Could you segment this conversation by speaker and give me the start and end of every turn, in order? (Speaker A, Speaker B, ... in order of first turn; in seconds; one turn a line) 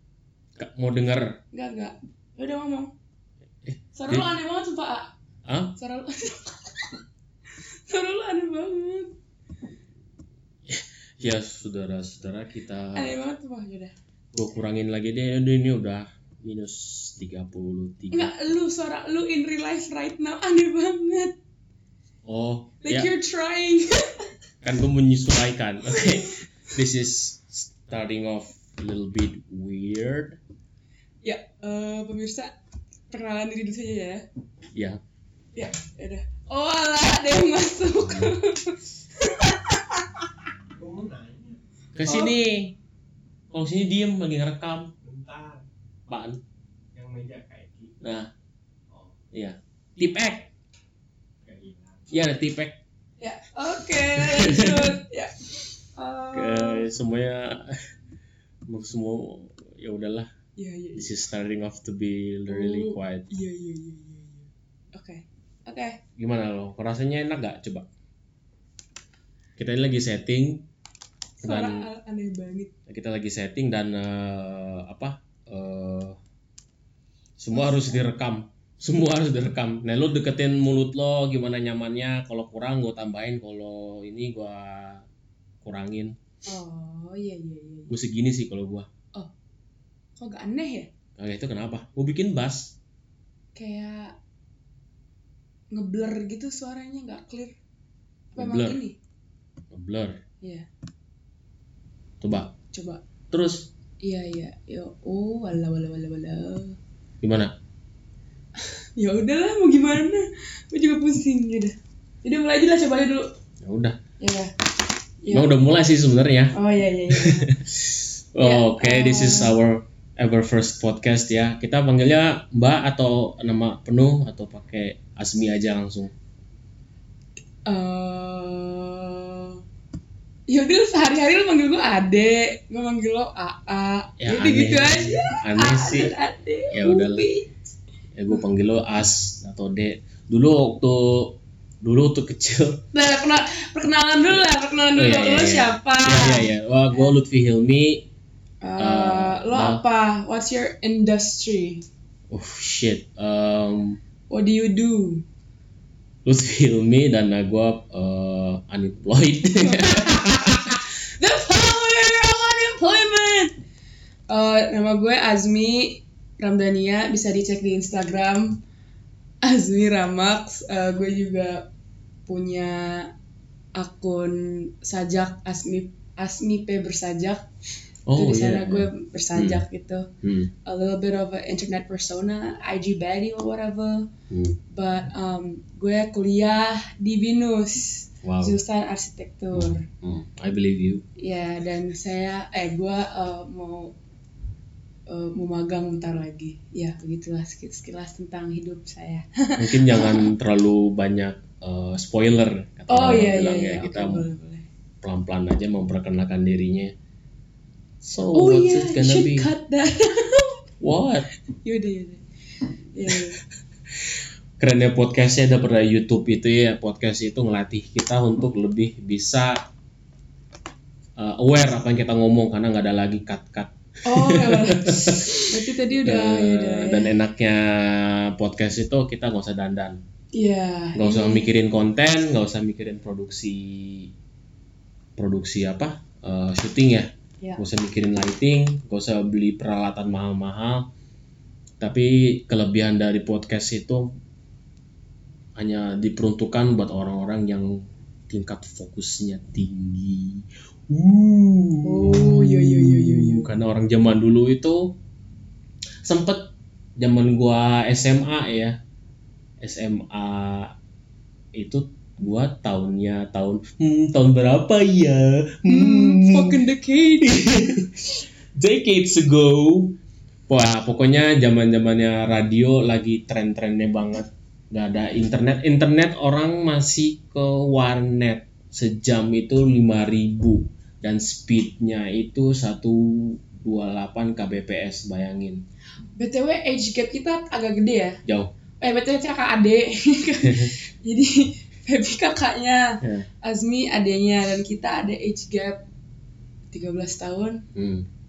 Speaker A: 0.6-1.4
Speaker B: 1.5-2.9
Speaker A: 3.6-4.3
Speaker B: 3.9-5.1
Speaker A: 5.5-5.8
Speaker B: 5.8-9.1
Speaker A: 10.7-13.1
Speaker B: 12.9-13.9
Speaker A: 14.3-18.3
Speaker B: 18.1-21.3
Speaker A: 22.2-23.1
Speaker B: 22.8-24.3
Speaker A: 24.6-30.4
Speaker B: 31.2-32.5
Speaker B: 33.1-34.2
Speaker A: 34.7-35.0
Speaker B: 35.5-40.3
Speaker A: 38.0-38.3
Speaker C: 40.8-41.6
Speaker A: 41.9-42.8
Speaker B: 42.0-42.3
Speaker A: 43.5-44.9
Speaker C: 45.0-45.6
Speaker A: 46.1-46.4
Speaker C: 46.9-47.9
Speaker A: 48.0-48.3
Speaker C: 48.9-49.1
Speaker A: 49.3-50.5
Speaker C: 51.4-52.3
Speaker A: 52.1-52.8
Speaker B: 53.2-56.9
Speaker A: 54.1-55.0
Speaker A: 56.3-57.8
Speaker A: 58.7-60.3
Speaker B: 60.5-61.1
Speaker A: 60.9-63.3
Speaker B: 62.5-66.0
Speaker A: 66.2-67.9
Speaker A: 69.6-70.7
Speaker A: 71.4-71.9
Speaker B: 71.4-72.7
Speaker A: 72.9-76.2
Speaker A: 77.4-85.0
Speaker B: 77.5-78.0
Speaker A: 85.6-86.2
Speaker B: 86.4-87.9
Speaker A: 87.9-88.9
Speaker B: 90.2-90.9
Speaker A: 91.2-92.8
Speaker B: 93.5-94.2
Speaker B: 95.7-97.6
Speaker B: 98.3-99.0
Speaker A: 98.3-98.8
Speaker A: 99.7-100.2
Speaker B: 100.4-100.7
Speaker A: 102.2-102.5
Speaker B: 102.7-103.0
Speaker A: 103.3-103.7
Speaker B: 104.0-106.8
Speaker A: 107.2-107.5
Speaker B: 108.6-113.3
Speaker A: 113.6-114.0
Speaker B: 114.2-114.6
Speaker B: 115.2-115.5
Speaker A: 115.3-116.6
Speaker B: 116.5-117.5
Speaker A: 117.1-126.1
Speaker B: 118.4-119.6
Speaker B: 127.7-129.6
Speaker B: 130.5-137.5
Speaker A: 134.2-136.1
Speaker A: 136.7-137.3
Speaker A: 138.1-142.8
Speaker B: 142.9-147.1
Speaker A: 144.9-148.1
Speaker B: 148.6-151.8
Speaker A: 148.8-149.8
Speaker A: 152.3-154.0
Speaker B: 154.3-155.2
Speaker A: 156.2-160.8
Speaker B: 159.6-163.5
Speaker B: 164.3-168.6
Speaker B: 169.4-171.7
Speaker B: 172.2-173.1
Speaker B: 173.8-177.5
Speaker A: 178.1-179.6
Speaker B: 178.1-180.1
Speaker A: 180.2-180.5
Speaker B: 180.6-184.1
Speaker A: 184.3-184.6
Speaker B: 184.7-189.8
Speaker A: 188.2-188.6
Speaker A: 189.5-191.0
Speaker B: 191.2-193.9
Speaker B: 195.1-200.3
Speaker A: 199.6-204.2
Speaker B: 202.9-204.7
Speaker A: 205.0-206.9
Speaker A: 208.0-209.5
Speaker B: 208.3-210.6
Speaker A: 210.8-211.3
Speaker B: 211.5-213.4
Speaker A: 214.6-219.6
Speaker A: 221.2-230.0
Speaker B: 224.0-227.1
Speaker B: 230.3-231.5
Speaker A: 230.9-234.1
Speaker A: 235.2-240.9
Speaker A: 241.8-244.1
Speaker A: 245.6-254.9
Speaker B: 251.8-253.5
Speaker A: 256.0-258.8
Speaker A: 259.6-260.7
Speaker A: 261.5-266.6
Speaker B: 265.7-267.4
Speaker A: 267.2-269.9
Speaker A: 270.5-285.6
Speaker B: 286.1-288.2
Speaker A: 288.2-288.5
Speaker B: 288.8-295.9
Speaker A: 290.4-290.7
Speaker A: 293.0-293.3
Speaker B: 296.7-297.6
Speaker A: 297.7-298.1